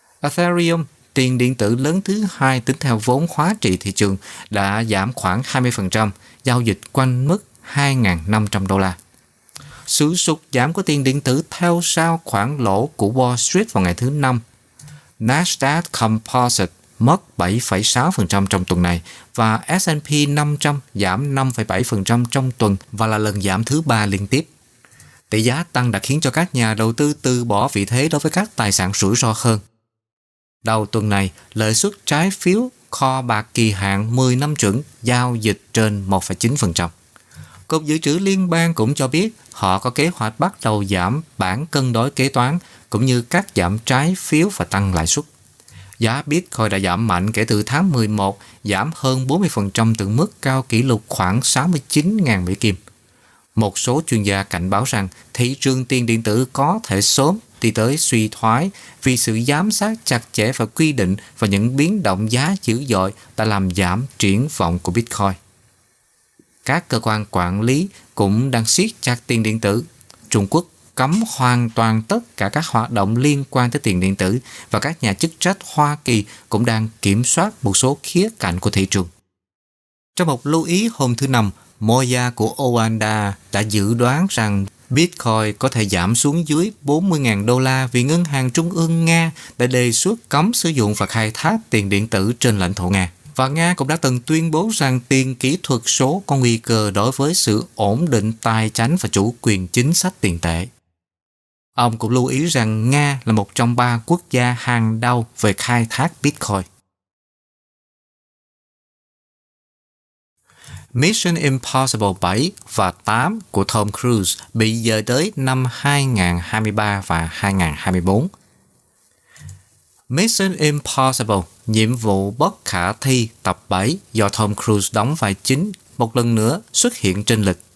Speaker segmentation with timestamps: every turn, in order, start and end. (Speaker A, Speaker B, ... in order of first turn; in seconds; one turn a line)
Speaker A: 0.2-9.0
Speaker A: 9.9-14.4
Speaker A: 15.2-24.5
Speaker A: 25.3-29.6
Speaker A: 30.6-36.9
Speaker A: 37.7-45.3
Speaker A: 46.0-52.8
Speaker A: 53.5-65.4
Speaker A: 66.6-79.1
Speaker A: 80.2-100.7
Speaker A: 101.8-106.7
Speaker A: 110.9-118.3
Speaker A: 120.1-127.6